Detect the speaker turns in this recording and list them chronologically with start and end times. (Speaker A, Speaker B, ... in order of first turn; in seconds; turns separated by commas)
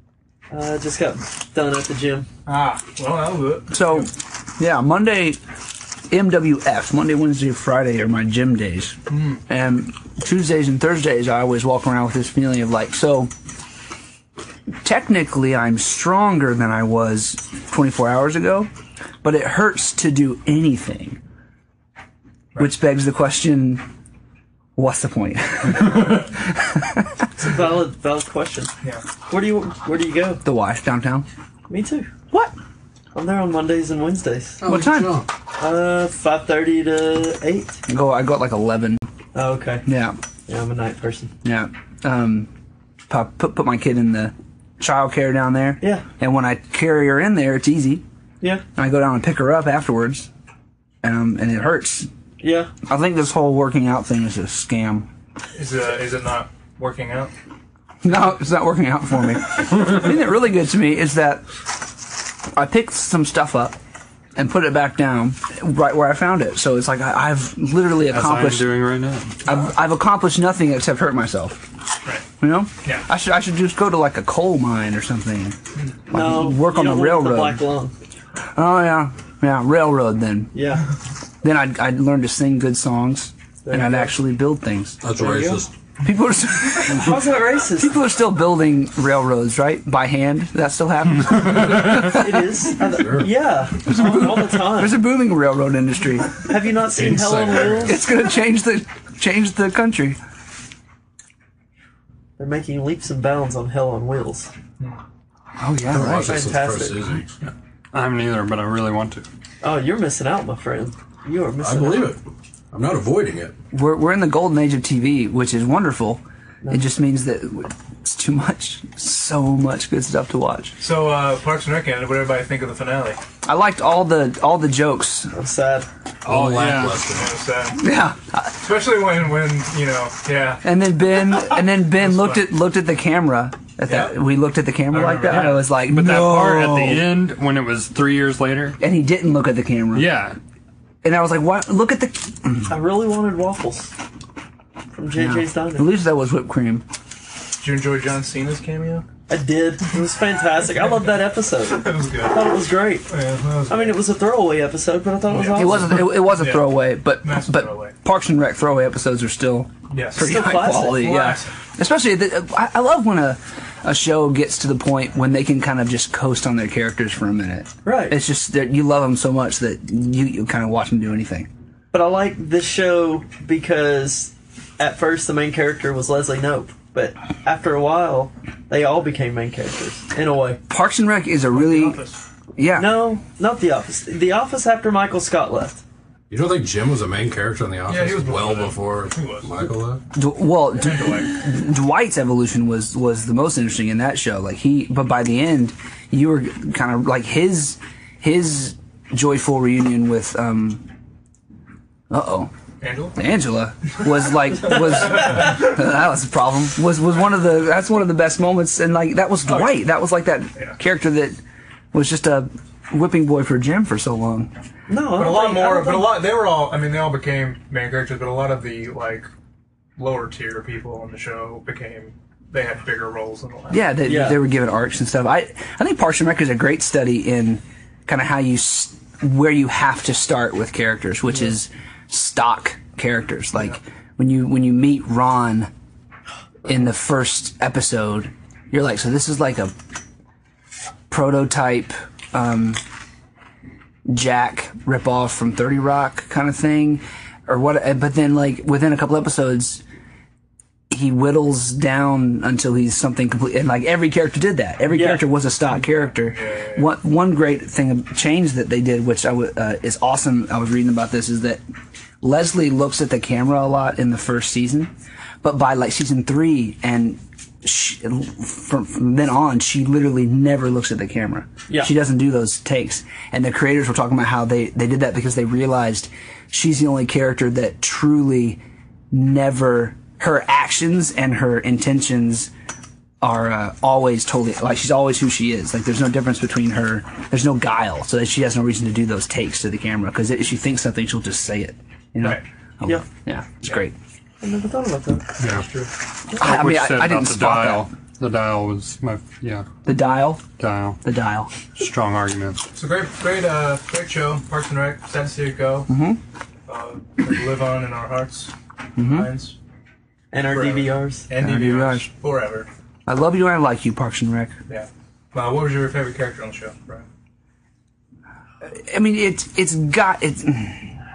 Speaker A: 0.5-2.3, Speaker B: 2.5-4.1, Speaker C: 3.7-5.4, Speaker C: 6.1-13.3, Speaker B: 9.1-9.4, Speaker C: 14.8-18.7, Speaker C: 19.2-21.2, Speaker C: 22.6-23.8, Speaker C: 24.8-27.2, Speaker A: 27.4-28.7, Speaker A: 29.2-30.4, Speaker C: 30.4-31.3, Speaker A: 31.7-32.1, Speaker A: 33.1-34.6, Speaker D: 34.6-35.3, Speaker C: 34.6-35.2, Speaker A: 35.6-37.8, Speaker C: 37.9-39.0, Speaker A: 39.3-39.9, Speaker C: 39.9-40.2, Speaker A: 40.5-41.3, Speaker C: 41.4-42.5, Speaker C: 43.1-48.0, Speaker A: 45.8-46.0, Speaker C: 48.8-50.3, Speaker C: 51.0-52.1, Speaker A: 52.4-52.7, Speaker C: 52.9-55.1, Speaker B: 55.5-57.3, Speaker C: 58.0-61.5, Speaker C: 62.5-63.8, Speaker C: 64.3-68.7, Speaker E: 68.1-69.4, Speaker C: 69.4-71.6, Speaker C: 72.4-75.5, Speaker C: 76.1-77.6, Speaker A: 76.1-77.9, Speaker C: 78.5-80.5, Speaker A: 80.5-80.8, Speaker C: 81.4-85.0, Speaker A: 83.6-84.1, Speaker D: 85.0-85.7, Speaker A: 85.2-85.6, Speaker C: 86.0-87.2, Speaker A: 86.8-88.0, Speaker C: 87.8-92.5, Speaker A: 91.8-95.0, Speaker D: 92.9-93.3, Speaker C: 93.8-96.3, Speaker A: 96.4-98.0, Speaker D: 96.9-98.0, Speaker C: 97.9-100.2, Speaker A: 102.4-104.5, Speaker C: 105.6-106.3, Speaker D: 105.9-107.5, Speaker A: 106.2-107.0, Speaker E: 107.9-109.2, Speaker A: 109.6-112.2, Speaker D: 111.6-113.5, Speaker C: 113.7-120.8, Speaker A: 116.6-116.9, Speaker B: 120.8-123.2, Speaker C: 123.4-125.3, Speaker A: 125.3-125.9, Speaker E: 126.2-127.0, Speaker D: 126.2-127.4, Speaker B: 127.0-127.8, Speaker C: 127.8-128.7, Speaker B: 128.6-130.6, Speaker C: 130.6-137.1, Speaker B: 131.9-132.5, Speaker B: 133.8-134.2, Speaker B: 134.9-135.6, Speaker E: 135.3-138.8, Speaker C: 138.8-140.1, Speaker E: 139.9-140.4, Speaker C: 141.0-142.7, Speaker A: 142.7-143.9, Speaker A: 144.9-145.9, Speaker C: 145.1-146.8, Speaker B: 147.6-149.1, Speaker A: 149.3-153.1, Speaker B: 150.8-151.1, Speaker B: 151.6-154.0, Speaker A: 153.7-156.2, Speaker B: 155.3-157.9, Speaker C: 155.5-171.5, Speaker B: 159.9-160.3, Speaker A: 160.2-161.2, Speaker B: 160.9-161.5, Speaker A: 167.8-168.2, Speaker A: 171.9-180.6, Speaker C: 180.7-182.0, Speaker B: 181.5-182.2, Speaker C: 182.6-183.1, Speaker A: 182.7-185.8, Speaker D: 186.3-190.0, Speaker B: 187.8-189.5, Speaker C: 190.1-200.8, Speaker B: 190.7-191.4, Speaker C: 202.1-202.5, Speaker B: 202.8-203.2, Speaker C: 203.1-211.4, Speaker B: 209.4-209.8, Speaker C: 211.9-214.5, Speaker A: 214.9-216.2, Speaker B: 215.1-219.3, Speaker B: 220.0-224.0, Speaker C: 223.7-235.7, Speaker A: 224.0-224.4, Speaker C: 236.7-239.7, Speaker C: 241.1-242.8, Speaker C: 244.1-249.8, Speaker C: 250.9-261.6, Speaker A: 254.9-255.2, Speaker B: 255.9-256.9, Speaker C: 262.2-278.6, Speaker C: 279.1-282.5, Speaker C: 283.2-293.9, Speaker A: 294.4-295.3, Speaker B: 295.4-295.9, Speaker E: 296.3-299.6, Speaker C: 296.3-297.9, Speaker C: 299.8-300.4, Speaker E: 300.6-301.0, Speaker C: 301.0-301.5, Speaker E: 301.7-302.6, Speaker B: 302.7-305.9, Speaker C: 305.9-306.2, Speaker B: 306.7-309.6, Speaker C: 308.9-309.3, Speaker A: 310.3-311.3, Speaker B: 310.4-312.7, Speaker C: 311.3-312.1, Speaker C: 313.1-314.5, Speaker B: 314.7-317.1, Speaker C: 318.7-320.9